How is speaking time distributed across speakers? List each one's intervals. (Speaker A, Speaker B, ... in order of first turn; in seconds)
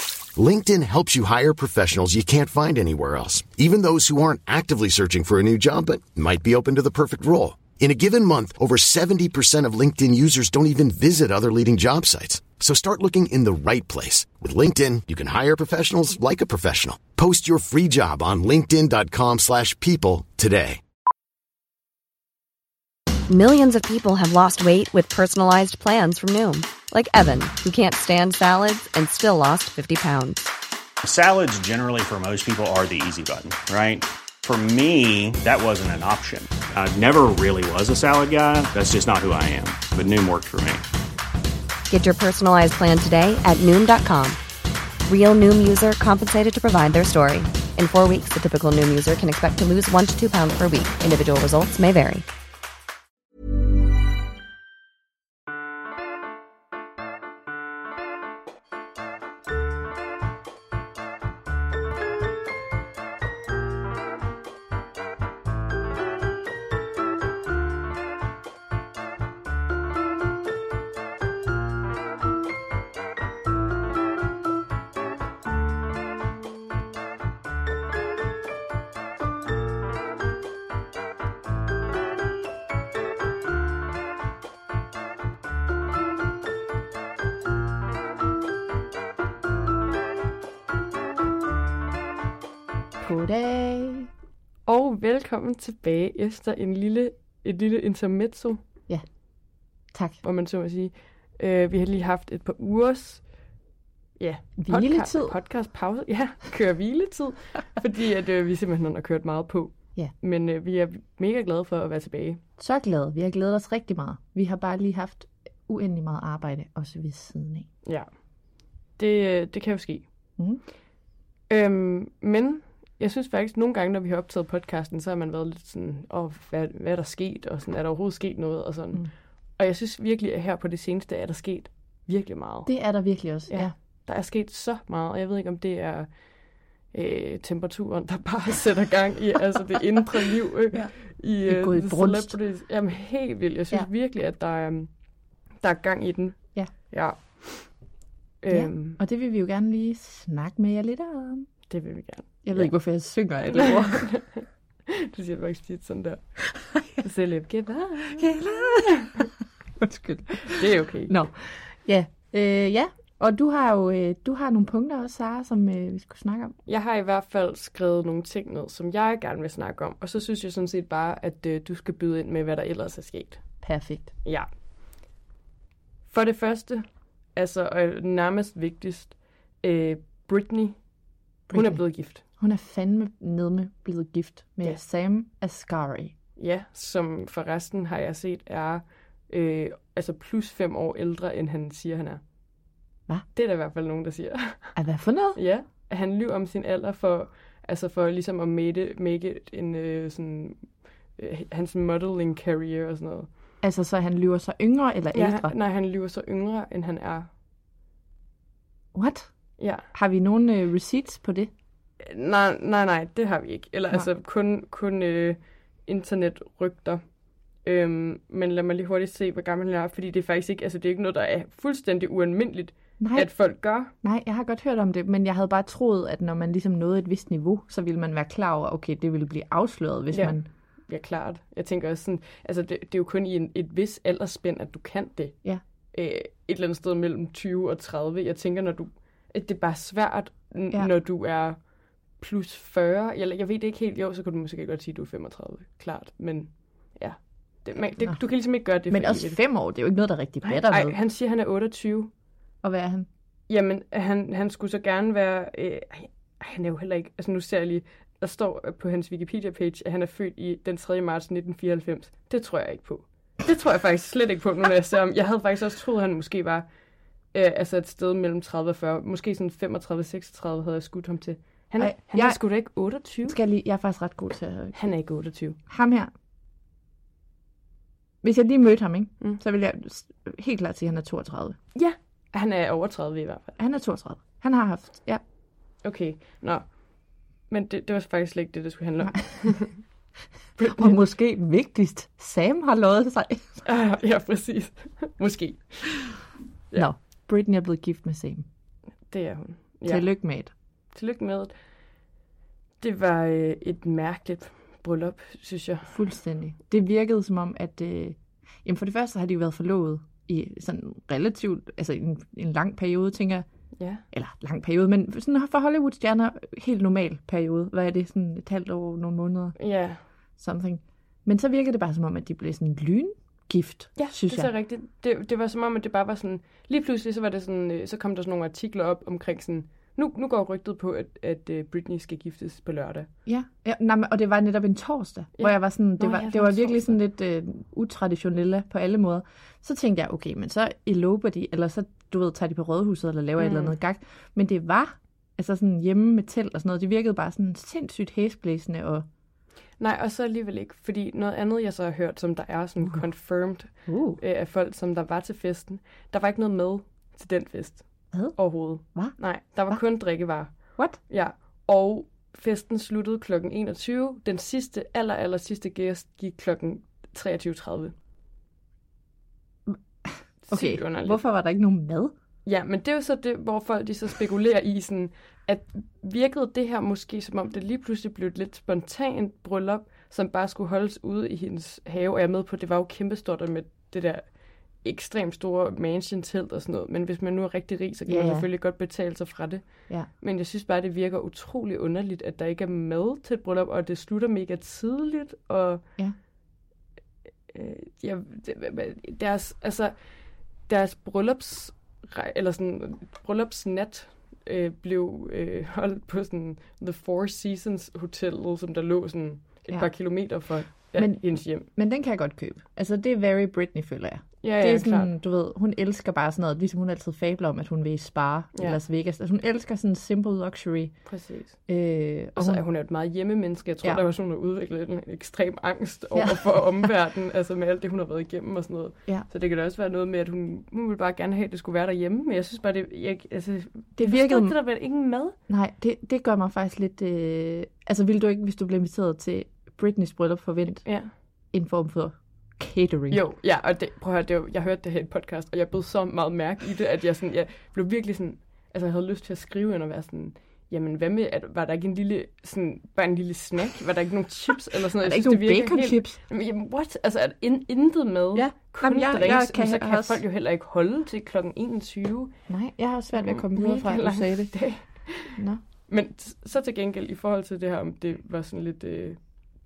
Speaker A: 0.3-20.8
Speaker B: 23.3-30.5, 41.9-44.4, 45.0-52.2
Speaker C: 31.0-40.8
Speaker D: 93.0-94.1, 99.9-100.2, 104.6-105.3, 112.6-117.7, 132.7-133.7, 141.4-142.3, 148.5-151.5, 152.4-154.1, 158.2-159.2, 159.8-166.6, 173.6-174.1, 181.5-181.8, 182.4-186.2, 194.8-195.4, 203.6-205.5, 208.9-209.3, 209.9-211.5, 223.0-223.3, 224.0-230.5, 248.9-250.9, 252.6-253.1, 271.8-272.4, 273.2-274.8, 275.7-276.1, 278.2-281.6, 283.6-285.2, 290.7-293.6, 296.8-298.5, 299.9-300.5, 305.9-313.4, 314.1-319.5, 320.4-324.5, 333.2-349.1, 353.9-354.2, 358.1-359.1, 369.7-372.1, 388.1-388.5, 410.9-420.9, 421.7-422.6, 426.1-426.9, 434.0-434.6, 435.5-440.9, 441.5-443.2, 455.0-456.2, 458.3-460.2, 462.5-464.5, 465.3-465.6
Speaker E: 94.7-98.6, 100.2-103.2, 104.2-112.4, 119.0-120.0, 121.5-132.7, 133.5-136.1, 136.9-144.9, 145.6-147.7, 148.4-149.0, 151.7-152.7, 153.4-156.2, 156.9-159.3, 160.4-161.1, 166.7-173.4, 176.1-180.8, 181.5-182.2, 186.4-192.2, 193.3-194.8, 195.3-203.3, 205.1-207.3, 209.6-209.9, 212.0-217.0, 217.6-223.9, 230.1-235.3, 235.9-241.6, 242.2-249.4, 250.4-252.1, 253.5-266.7, 267.3-273.4, 274.7-275.6, 281.7-283.6, 285.8-286.7, 287.5-289.8, 290.6-291.0, 293.6-296.1, 299.1-300.1, 300.9-301.5, 302.8-305.9, 313.8-314.0, 319.6-320.0, 323.9-333.1, 335.4-337.0, 343.4-343.7, 349.8-367.9, 370.4-371.2, 372.4-395.8, 397.5-399.9, 400.7-411.7, 414.4-415.1, 418.5-418.8, 421.1-421.6, 422.3-435.4, 440.8-441.1, 443.1-462.3, 463.1-469.2